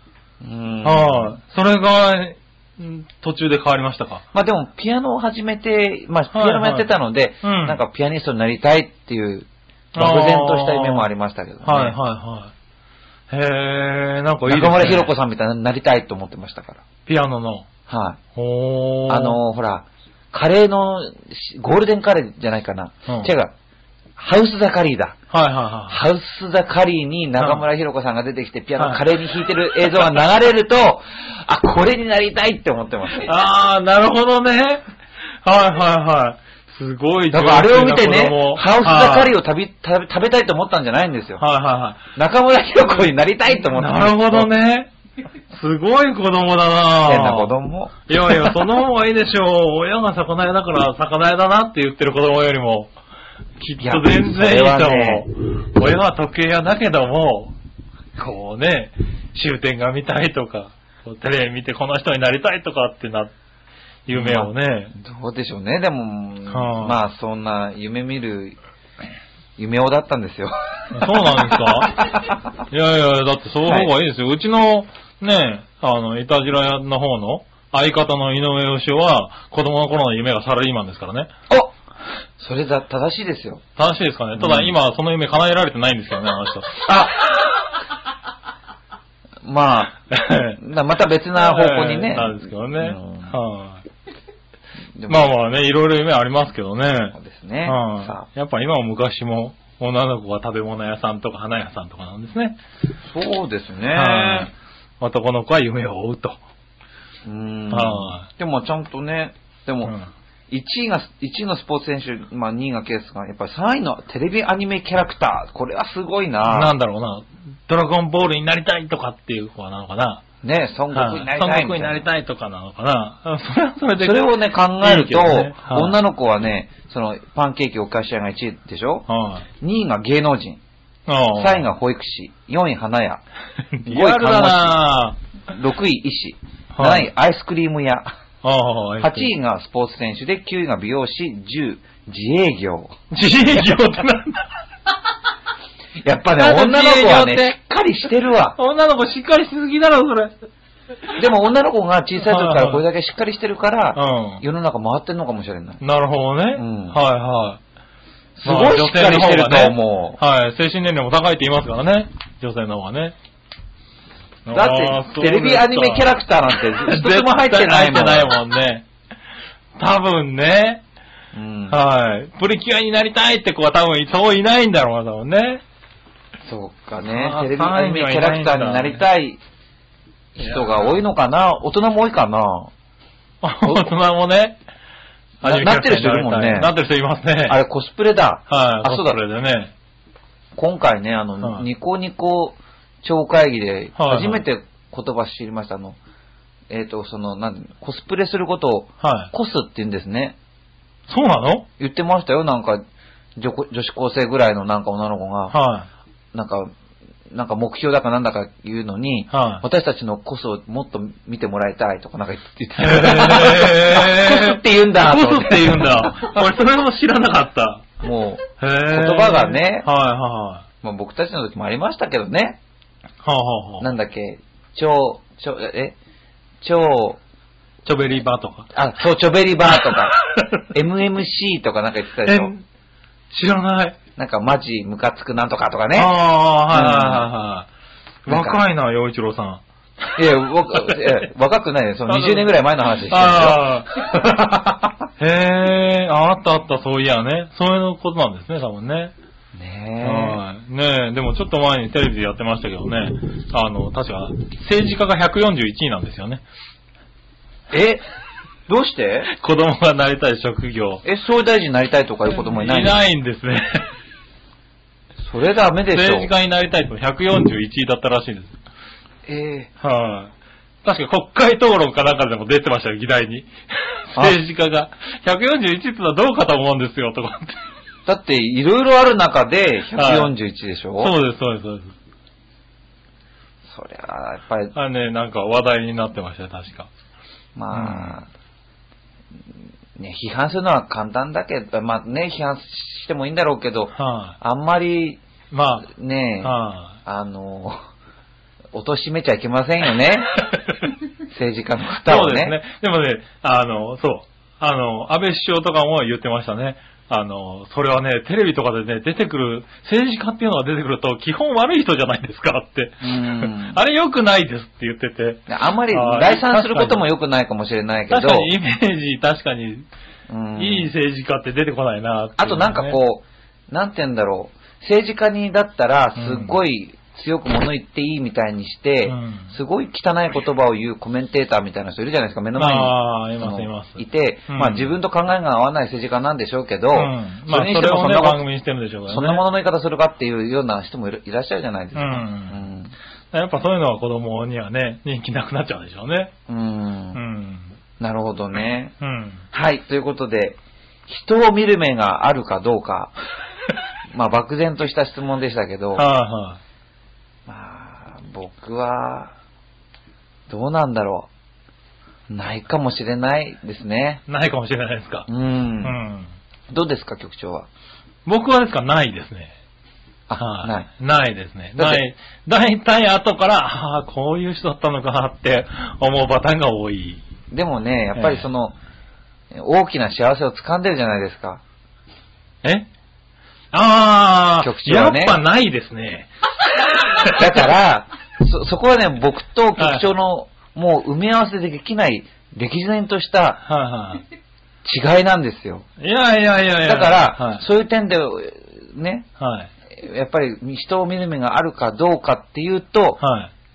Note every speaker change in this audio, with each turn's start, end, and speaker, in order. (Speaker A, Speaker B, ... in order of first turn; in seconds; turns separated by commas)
Speaker A: 0.4-1.4, Speaker B: 0.8-4.2, Speaker A: 4.3-12.0, Speaker B: 6.3-6.9, Speaker B: 7.4-7.8, Speaker B: 9.9-11.1, Speaker B: 11.6-12.5, Speaker B: 13.3-15.1, Speaker A: 14.4-16.8, Speaker B: 17.1-17.6, Speaker A: 17.9-18.2, Speaker B: 18.3-19.4, Speaker A: 19.1-23.5, Speaker A: 24.2-25.2, Speaker B: 25.3-26.0, Speaker A: 25.9-33.3, Speaker B: 27.4-27.6, Speaker B: 28.8-29.0, Speaker B: 33.1-34.8, Speaker B: 35.4-39.3, Speaker A: 37.3-41.4, Speaker B: 41.4-42.0, Speaker A: 42.1-44.5, Speaker B: 43.6-44.9, Speaker B: 45.5-47.5, Speaker A: 47.0-47.9, Speaker B: 48.1-52.9, Speaker B: 53.6-57.5, Speaker A: 53.8-55.2, Speaker B: 58.1-63.3, Speaker B: 64.0-64.9, Speaker A: 64.1-68.6, Speaker B: 66.5-67.0, Speaker A: 69.6-72.3, Speaker B: 70.9-72.1, Speaker B: 72.7-81.3, Speaker A: 82.4-83.6, Speaker B: 83.8-87.0, Speaker A: 84.4-84.7, Speaker A: 86.8-87.3, Speaker A: 89.4-90.0, Speaker B: 90.1-90.6, Speaker A: 90.5-93.3, Speaker B: 91.3-93.8, Speaker A: 94.9-95.3, Speaker B: 95.1-102.6, Speaker A: 97.1-98.3, Speaker A: 103.0-104.5, Speaker B: 103.9-106.4, Speaker A: 107.2-109.9, Speaker B: 107.7-108.3, Speaker A: 110.5-116.7, Speaker B: 116.5-120.2, Speaker A: 120.4-122.1, Speaker B: 120.9-126.0, Speaker A: 124.0-129.1, Speaker B: 129.1-129.4, Speaker A: 129.6-130.6, Speaker B: 131.1-131.7, Speaker A: 131.3-133.2, Speaker B: 133.7-135.2, Speaker A: 133.8-134.8, Speaker A: 135.5-138.1, Speaker B: 136.7-137.1, Speaker B: 138.4-139.3, Speaker A: 139.0-142.9, Speaker B: 143.1-144.5, Speaker A: 146.0-148.6, Speaker B: 146.3-147.6, Speaker B: 148.6-150.3, Speaker A: 151.2-155.8, Speaker B: 152.2-152.8, Speaker B: 153.9-154.4, Speaker B: 155.8-157.6, Speaker A: 156.5-157.0, Speaker A: 158.3-160.2, Speaker B: 158.4-163.1, Speaker B: 164.4-168.8, Speaker A: 164.5-168.3, Speaker B: 169.8-170.8, Speaker A: 171.3-171.8, Speaker B: 171.7-175.6, Speaker A: 176.4-179.4, Speaker B: 177.0-179.0, Speaker A: 180.3-182.7, Speaker B: 180.4-180.9, Speaker B: 183.4-184.6, Speaker A: 185.4-186.7, Speaker B: 185.4-187.6, Speaker A: 187.4-189.2, Speaker B: 188.5-189.7, Speaker A: 190.6-196.0, Speaker B: 191.4-191.7, Speaker B: 193.9-194.4, Speaker A: 196.7-200.3, Speaker B: 199.0-199.3, Speaker B: 201.1-201.7, Speaker A: 201.8-202.8, Speaker A: 203.4-205.6, Speaker B: 205.5-205.9, Speaker A: 206.3-206.7, Speaker A: 207.3-216.4, Speaker B: 209.3-209.6, Speaker B: 212.8-217.8, Speaker A: 218.0-219.9, Speaker B: 218.6-220.6, Speaker A: 220.8-222.6, Speaker B: 223.2-223.8, Speaker A: 223.8-225.9, Speaker A: 226.6-227.2, Speaker B: 227.8-228.7, Speaker A: 228.7-230.2, Speaker B: 229.7-230.6, Speaker A: 230.7-232.5, Speaker B: 232.2-232.6, Speaker B: 233.3-234.0, Speaker A: 234.2-236.1, Speaker B: 235.9-237.7, Speaker A: 236.7-237.3, Speaker B: 238.2-240.1, Speaker A: 238.3-238.6, Speaker A: 240.2-245.1, Speaker B: 240.8-241.1, Speaker B: 242.1-242.5, Speaker B: 243.1-243.9, Speaker B: 245.2-249.1, Speaker A: 249.5-250.4, Speaker B: 250.0-256.4, Speaker A: 257.7-258.0, Speaker A: 258.7-259.3, Speaker B: 259.3-261.0, Speaker A: 261.0-263.0, Speaker B: 262.3-263.9, Speaker A: 265.3-266.3, Speaker B: 265.9-268.5, Speaker A: 269.2-269.7, Speaker B: 269.8-270.3, Speaker B: 270.8-277.6, Speaker A: 278.1-281.1, Speaker B: 279.9-280.3, Speaker B: 281.0-281.9, Speaker A: 283.7-284.7, Speaker B: 284.7-286.9, Speaker A: 287.6-288.3, Speaker B: 287.7-288.1, Speaker A: 289.9-295.2, Speaker B: 293.9-294.4, Speaker B: 295.5-295.9, Speaker A: 295.8-297.8, Speaker B: 296.4-297.0, Speaker A: 298.7-300.4, Speaker A: 301.3-302.6, Speaker B: 302.0-317.1, Speaker A: 313.0-313.8, Speaker A: 315.5-318.5, Speaker B: 318.1-319.9, Speaker A: 320.3-320.9, Speaker B: 320.6-323.0, Speaker A: 322.4-338.4, Speaker B: 326.1-326.6, Speaker B: 329.1-329.5, Speaker B: 332.6-334.9, Speaker B: 336.9-339.4, Speaker A: 339.1-342.9, Speaker B: 341.9-342.6, Speaker B: 343.3-346.3, Speaker A: 346.5-347.2, Speaker B: 347.1-347.7, Speaker A: 348.0-348.9, Speaker B: 349.0-349.4, Speaker A: 349.5-353.1, Speaker A: 354.1-356.0, Speaker B: 355.9-356.6, Speaker A: 357.5-359.3, Speaker A: 360.5-361.3, Speaker A: 362.3-364.2, Speaker B: 364.3-365.3, Speaker A: 365.3-366.0, Speaker B: 365.8-366.3, Speaker A: 366.7-367.7, Speaker B: 368.2-369.5, Speaker A: 370.3-370.9, Speaker B: 370.4-377.2, Speaker A: 371.8-372.0, Speaker A: 377.5-378.8, Speaker B: 378.1-378.5, Speaker A: 379.5-381.6, Speaker B: 382.6-382.9, Speaker B: 383.7-387.6, Speaker A: 384.6-385.4, Speaker A: 387.3-393.6, Speaker B: 389.8-390.1, Speaker B: 393.6-394.2, Speaker A: 394.8-395.9, Speaker B: 396.0-397.6, Speaker A: 396.8-399.2, Speaker B: 399.4-399.7, Speaker A: 399.9-403.2, Speaker B: 403.2-403.5